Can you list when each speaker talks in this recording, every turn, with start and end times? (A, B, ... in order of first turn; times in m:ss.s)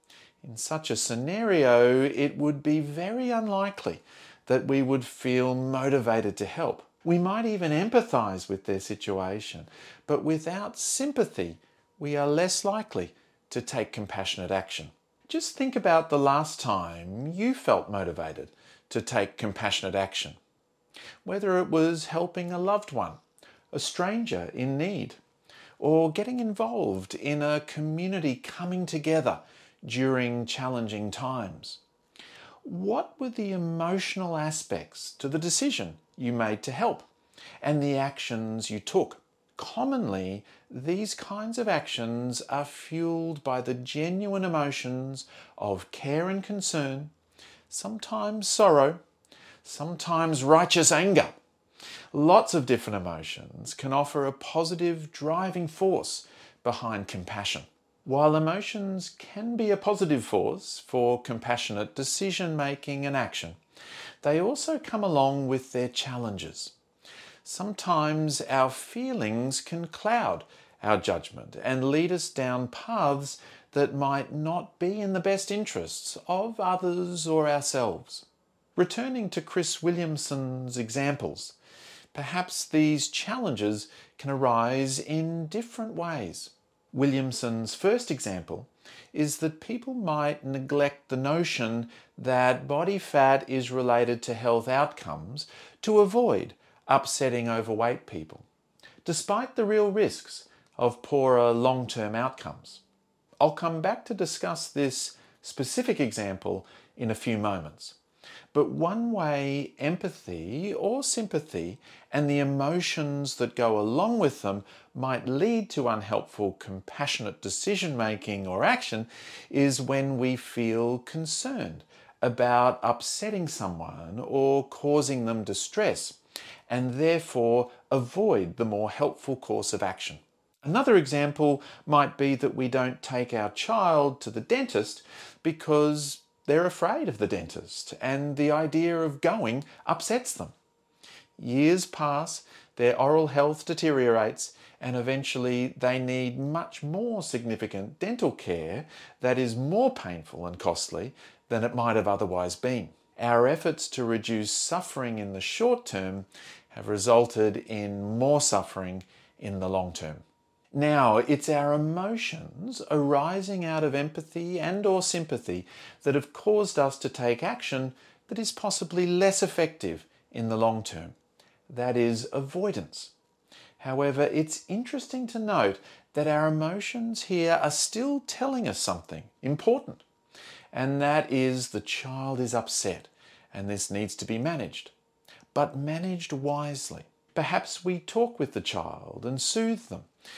0:00.4-0:20.4 A
0:21.2-0:23.2 A
0:23.7-0:25.2 A
0:25.8-0:31.8 A
0:32.6-0:37.1 A
0:37.6-0:47.1 A
0:47.7-0:49.0 A
0:49.6-0:51.4 A
0:52.1-1:03.6 A
1:04.2-1:06.7 A
1:07.4-1:18.2 A
1:18.8-1:21.6 A
1:22.1-1:38.4 A
1:39.0-1:42.8 A
1:43.4-1:48.0 A
1:48.5-2:06.2 A
2:06.7-2:20.5 A
2:21.4-2:51.1 A
2:51.7-2:53.1 A
2:53.8-3:00.0 A
3:00.7-3:04.9 A
3:05.5-3:10.1 A